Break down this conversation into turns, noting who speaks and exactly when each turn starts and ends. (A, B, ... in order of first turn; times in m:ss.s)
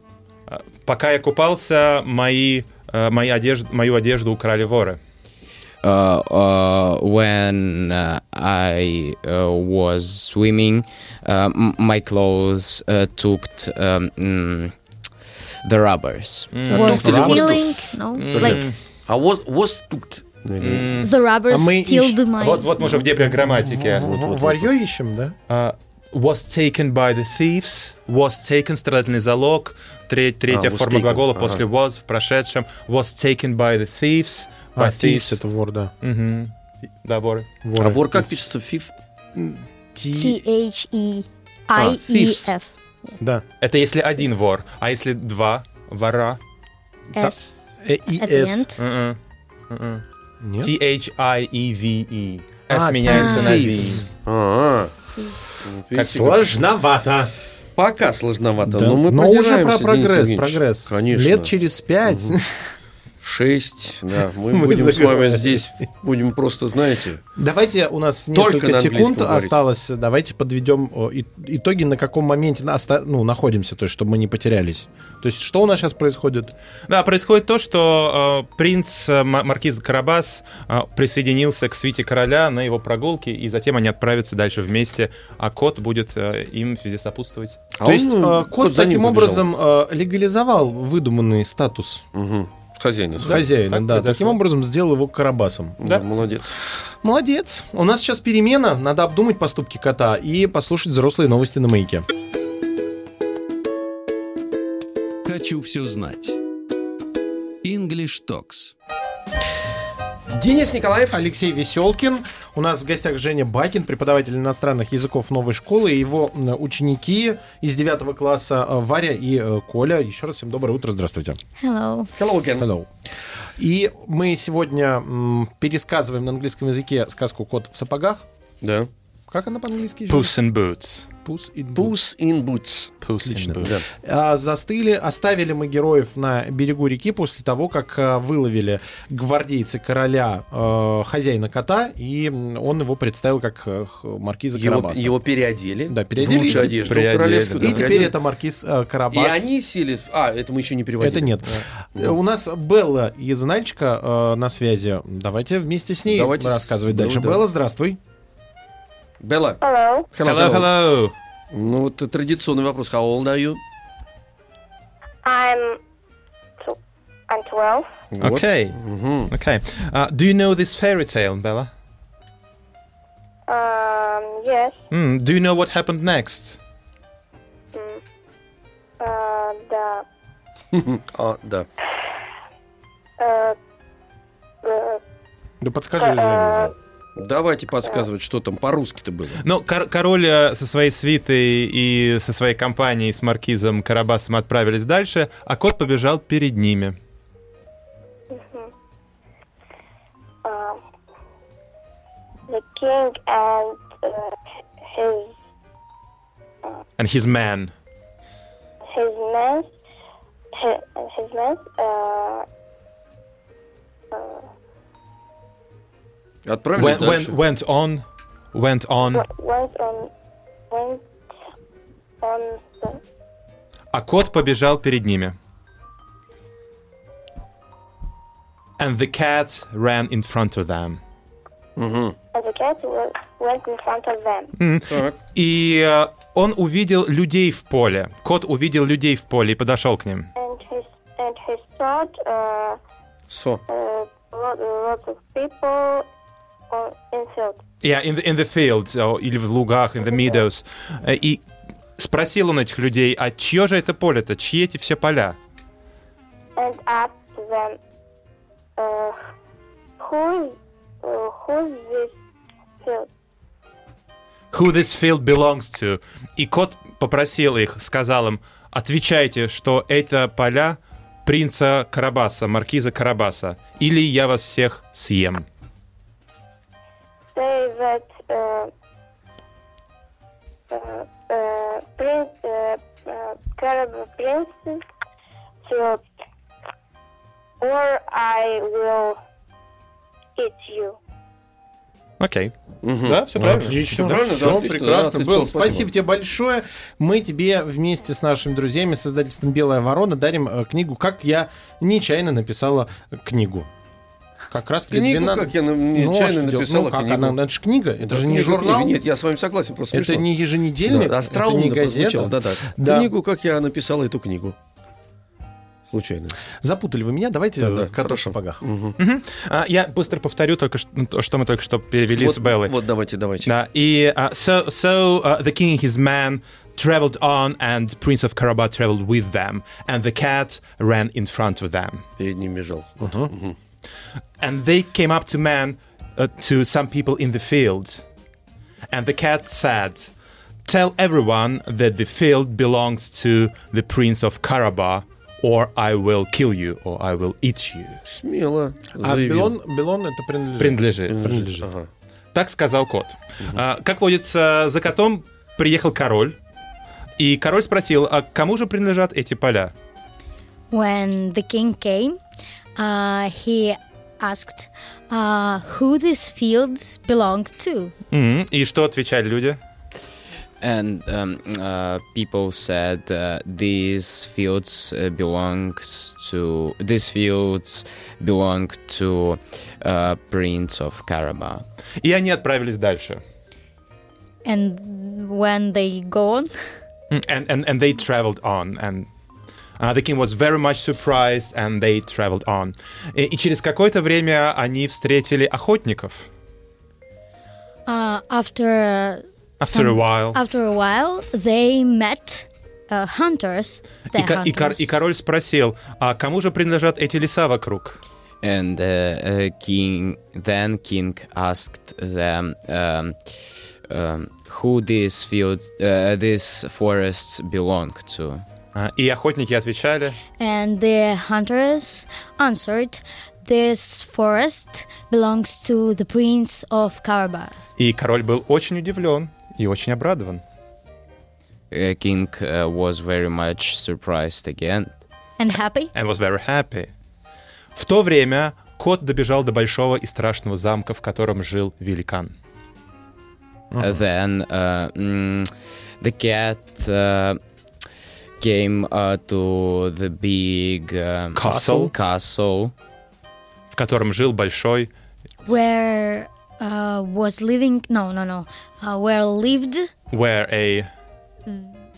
0:00.5-0:05.0 A
0:05.8-0:14.7 B
0:15.6-0:16.5 B
0:16.5-0:17.6 A
0:16.7-0:17.8 C
0:16.7-0:18.6 D
0:16.8-0:17.5 E
0:18.1-0:18.7 A
0:18.3-0:21.0 C
0:20.6-0:21.1 A
0:21.0-0:23.0 D
0:21.5-0:22.2 E
0:22.4-0:24.1 A
0:23.4-0:25.3 E
0:23.8-0:24.7 C
0:25.5-0:35.4 A
0:30.5-0:31.6 C
0:34.8-0:35.9 E
0:36.0-0:36.5 A
0:37.0-0:37.5 A
0:37.6-0:38.4 E
0:37.8-0:38.9 C
0:39.3-0:40.4 E
0:40.1-0:43.2 D
0:41.8-0:42.4 A
0:43.6-0:46.4 A
0:47.1-0:48.7 E
0:47.1-0:48.8 D
0:48.8-0:49.2 A
0:49.7-0:50.0 A
0:50.4-0:50.7 E
0:50.6-0:54.1 A
0:52.7-0:54.1 E
0:53.0-0:53.5 D
0:53.1-0:54.9 C
0:55.6-0:56.4 C
0:55.9-0:57.3 E
0:57.8-1:01.5 C
0:58.6-1:02.5 E
1:02.0-1:02.3 C
1:03.2-1:07.2 C
1:04.5-1:05.6 E
1:07.4-1:16.5 E
1:08.3-1:09.6 C
1:16.9-1:27.6 A
1:27.8-1:29.5 C
1:27.8-1:32.0 E
1:32.1-1:33.5 C
1:33.2-1:35.8 E
1:33.2-1:34.4 A
1:35.8-1:36.6 C
1:37.0-1:42.0 E
1:45.2-1:46.4 F
1:47.6-1:48.7 F
1:50.3-1:51.2 C
1:51.1-2:01.4 E
2:01.6-2:02.1 D
2:02.2-2:02.7 C
2:02.6-2:02.9 E
2:03.6-2:08.2 E
2:08.6-2:08.9 C
2:09.3-2:10.3 E
2:10.1-2:11.1 A
2:11.2-2:11.9 E
2:11.7-2:12.9 C
2:13.0-2:13.8 A
2:13.2-2:25.2 E
2:13.6-2:13.8 C
2:24.5-2:28.1 C
2:25.9-2:27.0 E
2:26.2-2:28.1 A
2:27.6-2:29.5 E
2:29.1-2:31.3 C
2:31.0-2:38.0 E
2:36.1-2:37.4 C
2:39.2-2:39.6 C
2:39.6-2:40.1 G
2:40.1-2:40.7 C
2:40.2-2:41.1 A
2:41.5-2:43.6 C
2:45.2-2:45.8 G
2:46.6-2:47.9 G
2:48.1-2:49.3 C
2:48.2-2:48.8 A
2:49.3-2:51.7 A
2:53.5-2:54.8 G
2:54.9-2:56.6 A
2:57.7-2:58.0 G
2:59.0-3:00.0 G
3:00.7-3:01.7 C
3:03.2-3:03.6 G
3:04.6-3:05.0 G
3:05.6-3:06.7 E
3:06.0-3:06.7 G
3:07.2-3:09.4 C
3:09.4-3:17.0 A
3:18.3-3:18.7 G
3:20.4-3:20.8 G
3:22.5-3:25.4 G
3:27.0-3:27.7 A
3:28.8-3:29.7 G
3:30.5-3:32.4 G
3:34.1-3:34.4 G
3:36.4-3:37.4 C
3:36.8-3:39.2 A
3:39.1-3:40.1 G
3:40.7-3:41.0 G
3:42.2-3:43.0 G
3:43.9-3:45.4 A
3:48.8-3:51.0 A
3:51.8-3:52.1 C
3:52.3-3:54.5 G
3:54.6-4:00.3 A
3:54.9-3:55.2 C
4:00.4-4:02.8 G
4:03.3-4:03.6 C
4:03.7-4:06.1 G
4:06.7-4:07.6 G
4:07.8-4:11.4 A
4:12.0-4:15.4 A
4:16.6-4:17.8 G
4:18.8-4:19.2 G
4:20.0-4:22.1 G
4:22.8-4:23.1 G
4:24.5-4:35.4 A
4:37.3-4:38.7 G
4:40.7-4:44.8 G
4:45.6-4:46.0 G
4:47.6-4:49.2 G
4:50.4-4:51.0 G
4:52.2-4:53.8 A
4:52.8-4:55.9 C
4:53.4-5:03.7 E
5:04.5-5:09.0 E
5:04.9-5:07.4 C
5:08.0-5:10.3 C
5:09.9-5:13.1 E
5:10.8-5:14.6 C
5:15.9-5:16.4 C
5:16.6-5:18.6 E
5:17.6-5:19.0 C
5:19.0-5:22.7 A
5:22.1-5:23.5 C
5:23.4-5:32.0 A
5:32.2-5:33.6 C
5:33.0-5:33.3 E
5:34.4-5:38.0 A
5:38.9-5:40.1 A
5:40.6-5:48.0 A
5:48.0-5:49.5 C
5:49.0-5:51.7 E
5:50.6-5:51.3 A
5:51.1-5:51.9 C
5:52.3-5:56.4 A
5:57.2-5:59.7 A
6:00.7-6:02.2 D
6:02.8-6:07.9 D
6:08.1-6:09.6 A
6:10.6-6:21.6 B
6:22.0-6:23.2 A
6:24.4-6:26.5 D
6:27.1-6:29.1 A
6:29.8-6:36.3 A
6:37.9-6:45.0 D
6:39.6-6:40.4 A
6:44.1-6:48.0 A
6:48.4-6:53.2 B
6:53.9-6:58.4 B
6:58.7-7:00.2 A
7:00.4-7:07.6 D
7:07.8-7:10.4 A
7:11.7-7:14.9 B
7:15.4-7:15.9 D
7:15.9-7:16.9 A
7:17.7-7:22.3 A
7:23.7-7:24.0 E
7:23.8-7:25.5 B
7:26.0-7:27.4 B
7:28.4-7:32.7 B
7:31.3-7:31.9 A
7:31.4-7:31.9 E
7:33.7-7:34.9 A
7:35.4-7:39.9 D
7:40.1-7:40.9 A